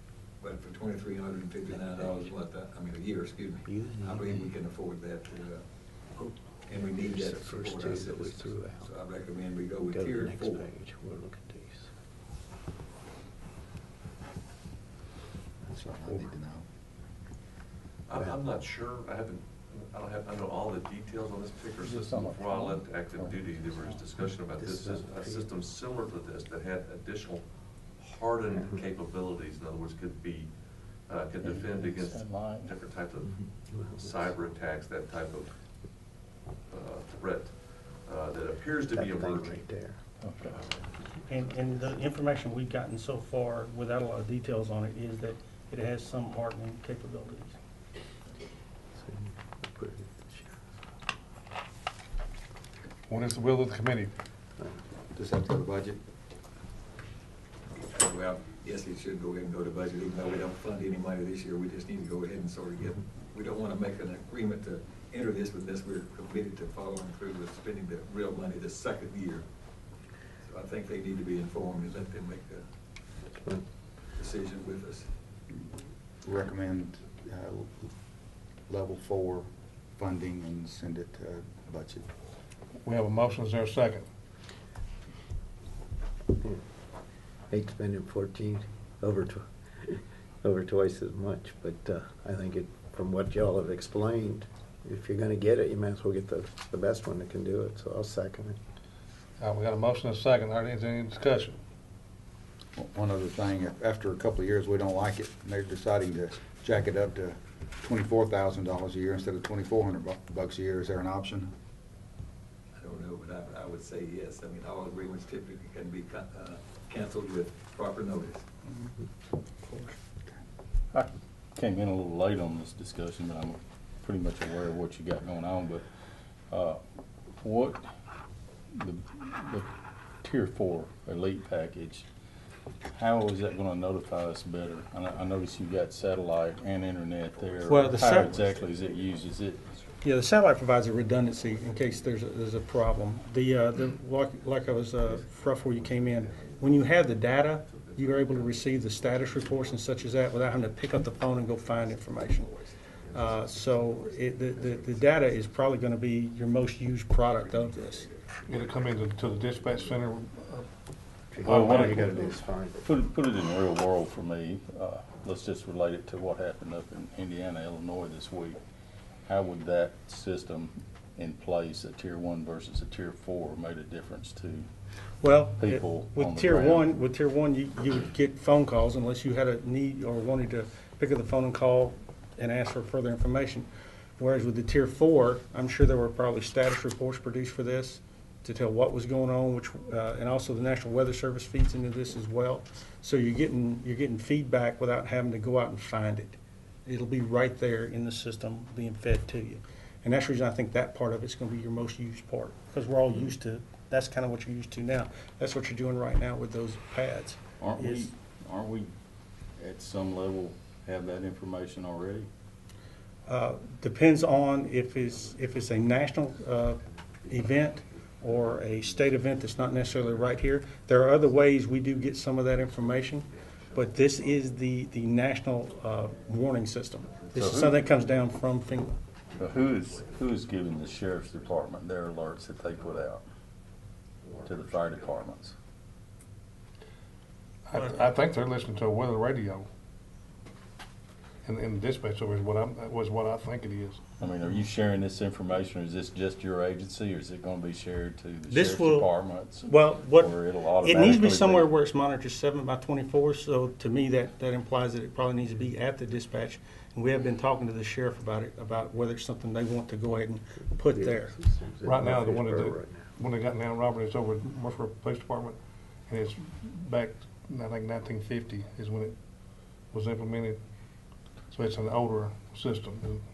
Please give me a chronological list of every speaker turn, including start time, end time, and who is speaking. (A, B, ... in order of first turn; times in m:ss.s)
0:00.4-0:10.6 A
0:01.7-0:02.2 B
0:03.6-0:04.5 B
0:06.8-0:08.9 B
0:09.9-0:11.9 B
0:15.7-0:16.6 C
0:18.1-0:35.6 D
0:21.8-0:24.0 C
0:24.6-0:25.4 C
0:28.5-0:28.8 B
0:31.4-0:32.7 E
0:36.7-0:39.7 D
0:38.9-0:40.0 B
0:40.2-0:40.6 E
0:40.4-0:40.9 D
0:41.2-0:47.5 F
0:49.0-0:50.6 B
0:53.1-0:54.1 G
0:55.1-0:56.0 C
0:57.9-1:09.5 A
1:10.4-1:12.6 A
1:13.3-1:13.6 B
1:14.1-1:15.1 A
1:16.2-1:17.9 C
1:18.7-1:22.1 C
1:22.8-1:24.0 G
1:27.5-1:38.6 B
1:39.4-1:41.6 G
1:42.8-1:51.5 C
1:52.8-1:58.4 A
1:59.6-2:00.0 F
2:00.9-2:05.9 E
2:06.5-2:06.8 E
2:07.4-2:07.9 E
2:08.7-2:09.7 E
2:10.2-2:12.0 E
2:12.9-2:19.6 E
2:17.6-2:17.8 A
2:17.6-2:18.5 F
2:20.0-2:32.6 F
2:25.8-2:27.0 D
2:27.7-2:29.1 D
2:33.1-2:38.1 F
2:33.3-2:35.4 D
2:37.4-2:38.6 A
2:38.5-2:40.7 G
2:41.3-2:42.8 B
2:41.4-2:48.6 E
2:41.4-2:42.1 G
2:49.2-2:54.7 E
2:55.2-3:28.1 F
2:55.6-2:56.9 E
3:27.6-3:28.9 E
3:29.6-3:32.3 E
3:33.3-3:48.9 F
3:47.3-3:47.8 E
3:49.4-3:53.2 E
3:54.4-3:55.5 E
3:54.9-3:55.1 D
3:57.7-3:59.7 G
3:57.7-3:58.1 F
4:01.4-4:04.0 G
4:04.2-4:11.7 E
4:08.5-4:21.4 F
4:20.8-4:23.0 B
4:21.8-4:29.2 G
4:29.9-4:30.6 G
4:31.5-4:33.2 G